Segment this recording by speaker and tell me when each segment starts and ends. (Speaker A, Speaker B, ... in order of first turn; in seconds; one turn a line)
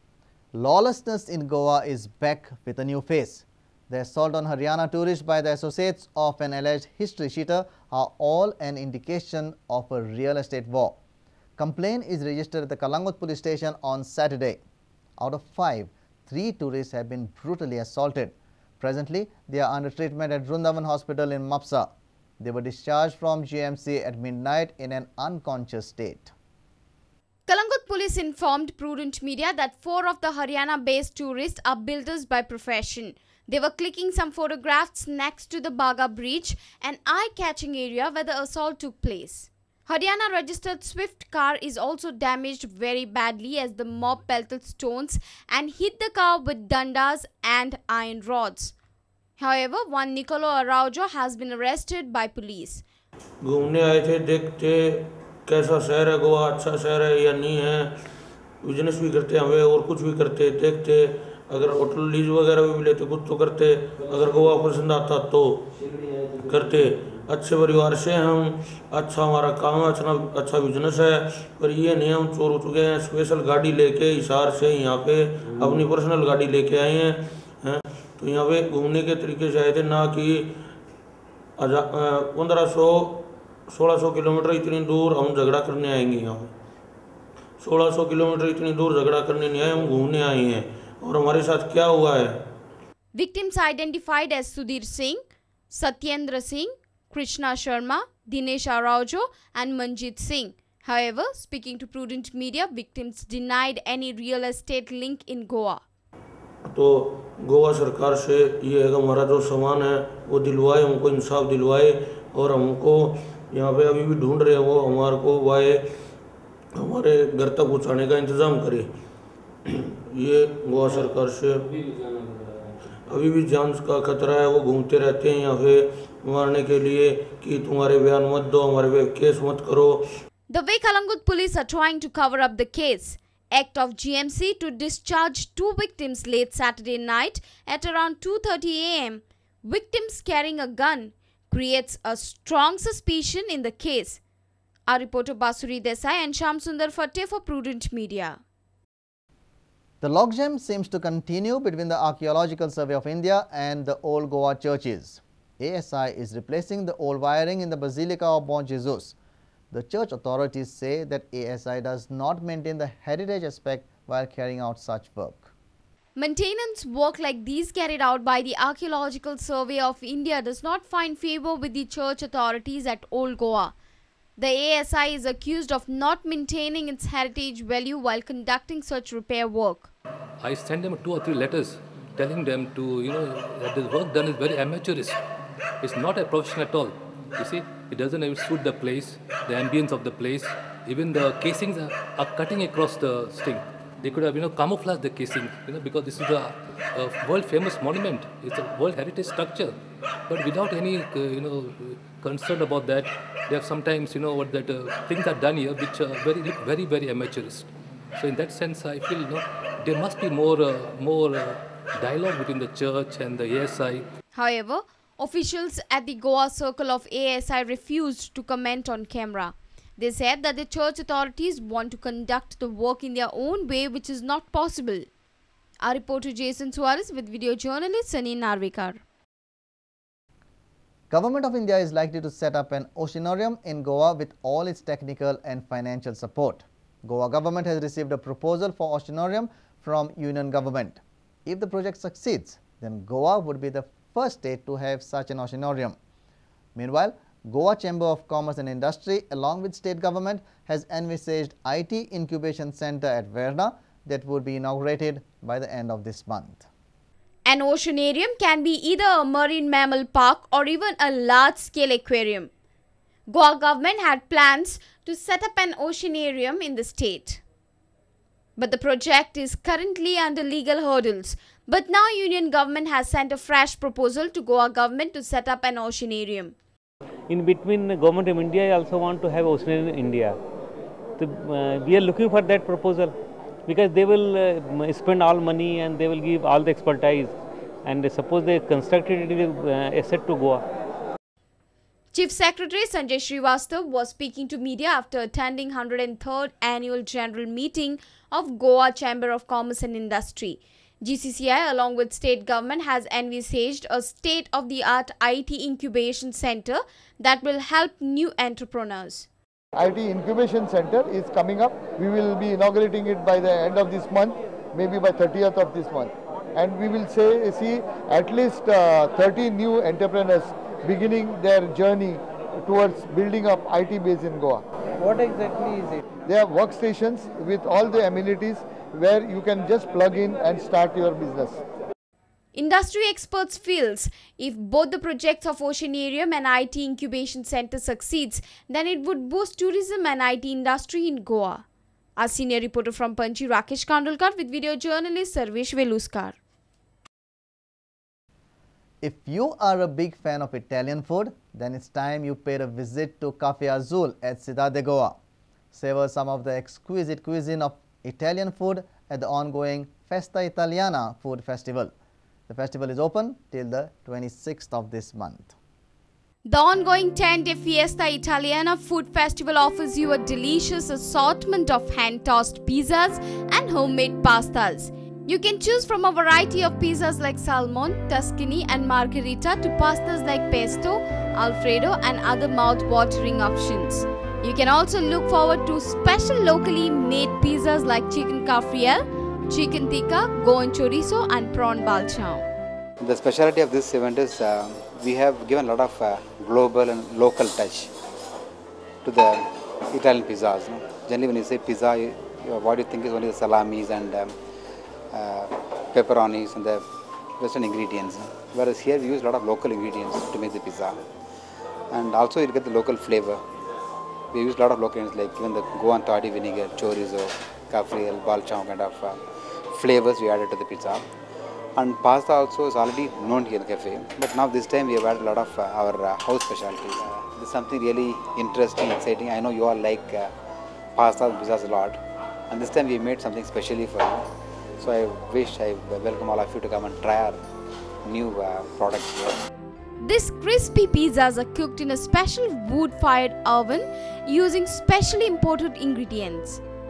Speaker A: 0.5-11.0
Speaker A: 11.6-14.6
Speaker A: 15.2-26.3
Speaker B: 27.4-48.7
Speaker B: 49.4-52.8
Speaker C: 53.4-57.9
Speaker C: 58.6-65.6
Speaker C: 66.4-80.5
Speaker C: 81.6-86.5
Speaker C: 87.6-92.3
Speaker B: 93.1-105.8
Speaker C: 106.7-115.8
Speaker C: 116.8-118.9
Speaker C: 119.7-121.7
Speaker C: 123.1-130.0
Speaker B: 130.5-144.2
Speaker B: 144.9-148.4
Speaker A: 150.0-159.2
Speaker A: 159.7-165.5
Speaker B: 166.1-173.7
Speaker B: 174.4-179.9
Speaker D: 180.4-185.2
Speaker D: 185.8-199.7
Speaker D: 200.3-214.1
Speaker B: 214.3-225.1
Speaker B: 225.8-229.0
Speaker A: 231.1-245.9
Speaker A: 246.8-256.7
Speaker B: 257.4-262.5
Speaker B: 263.3-267.4
Speaker B: 268.6-276.5
Speaker E: 277.3-280.4
Speaker E: 281.2-290.6
Speaker B: 292.1-309.3
Speaker F: 309.8-331.6
Speaker B: 332.5-341.6
Speaker B: 342.2-346.4
Speaker A: 349.0-355.2
Speaker A: 355.7-361.9
Speaker A: 362.5-365.5
Speaker B: 366.4-392.4
Speaker G: 393.0-397.9
Speaker G: 399.0-404.3
Speaker G: 405.1-406.8
Speaker G: 407.4-411.0
Speaker G: 411.9-413.4
Speaker G: 414.3-421.0
Speaker G: 421.8-430.3
Speaker G: 430.9-432.0
Speaker G: 432.5-434.2
Speaker G: 434.8-437.4
Speaker G: 438.0-439.4
Speaker B: 440.0-446.6